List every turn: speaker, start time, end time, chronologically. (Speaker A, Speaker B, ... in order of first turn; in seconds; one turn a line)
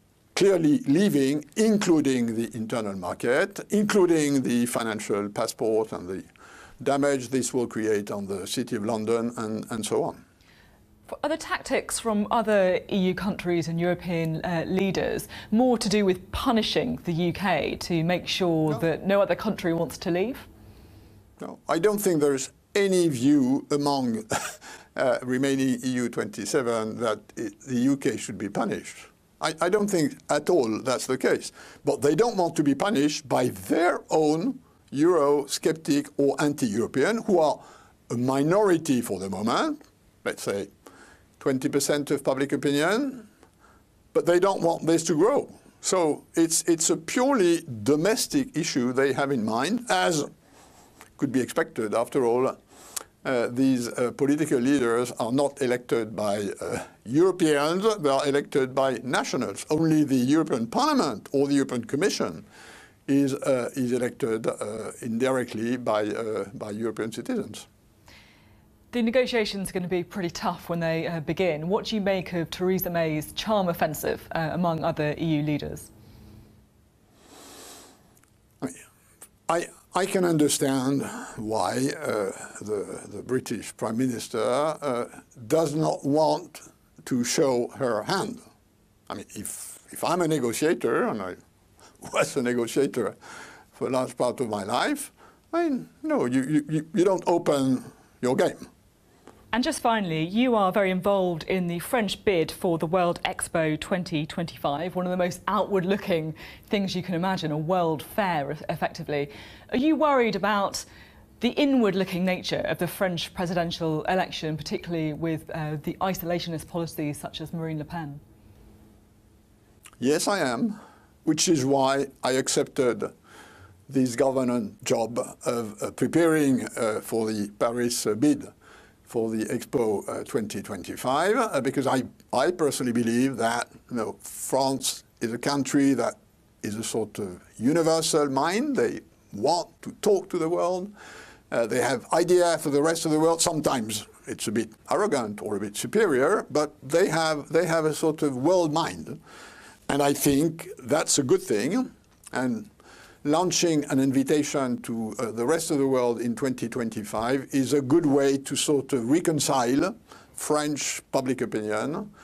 Speaker A: 0.3-6.3
Speaker A: 6.8-10.2
Speaker B: 11.1-20.4
Speaker A: 21.4-40.7
Speaker A: 41.4-43.3
Speaker A: 44.1-50.3
Speaker A: 51.2-52.6
Speaker A: 53.2-62.4
Speaker A: 63.1-67.7
Speaker B: 68.9-75.9
Speaker A: 79.5-88.4
Speaker A: 89.1-91.4
Speaker A: 92.0-93.1
Speaker A: 93.7-98.6
Speaker B: 99.5-110.8
Speaker B: 111.4-118.2
Speaker A: 120.0-123.1
Speaker A: 123.9-128.5
Speaker A: 129.1-140.9
Speaker A: 141.5-149.2
Speaker A: 149.9-152.7
Speaker A: 153.2-162.1